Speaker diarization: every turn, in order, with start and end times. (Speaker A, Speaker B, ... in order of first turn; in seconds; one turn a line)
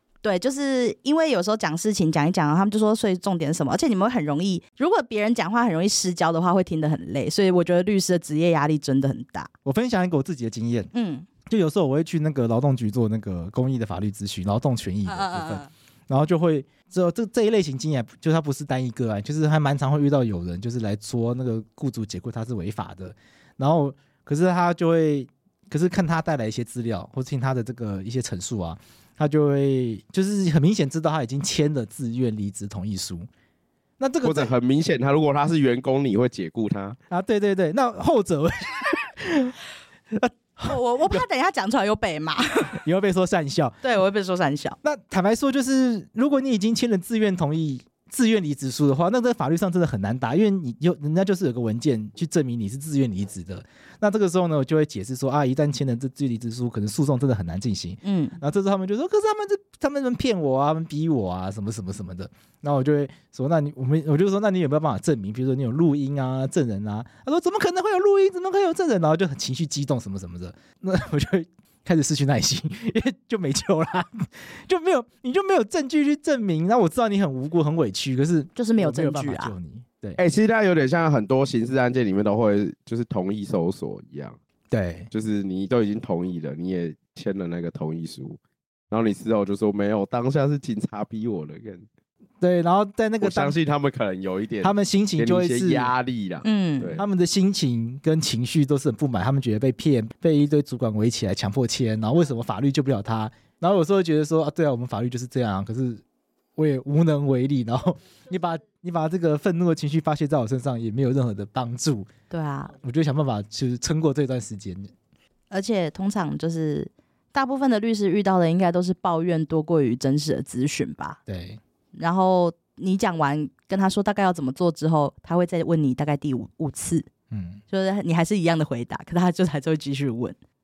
Speaker A: 0.2-9.5
Speaker B: 9.6-10.9
Speaker A: 10.9-11.3
Speaker B: 11.5-33.3
Speaker A: 15.1-15.7
Speaker B: 34.0-34.5
Speaker C: 34.2-37.0
Speaker B: 37.1-39.5
Speaker B: 40.1-41.2
Speaker A: 40.6-42.8
Speaker B: 42.7-43.8
Speaker A: 43.8-44.8
Speaker B: 44.8-80.2
Speaker A: 58.0-58.4
Speaker A: 78.5-79.5
Speaker C: 80.2-84.4
Speaker B: 84.7-85.1
Speaker C: 85.1-88.4
Speaker C: 88.9-91.8
Speaker B: 92.4-93.5
Speaker C: 93.2-97.0
Speaker B: 94.6-95.9
Speaker A: 96.4-97.0
Speaker B: 97.0-106.0
Speaker B: 106.5-112.1
Speaker A: 112.3-112.7
Speaker B: 112.7-114.9
Speaker A: 115.5-121.2
Speaker B: 121.3-121.6
Speaker A: 121.9-127.1
Speaker B: 127.3-127.6
Speaker A: 127.7-130.3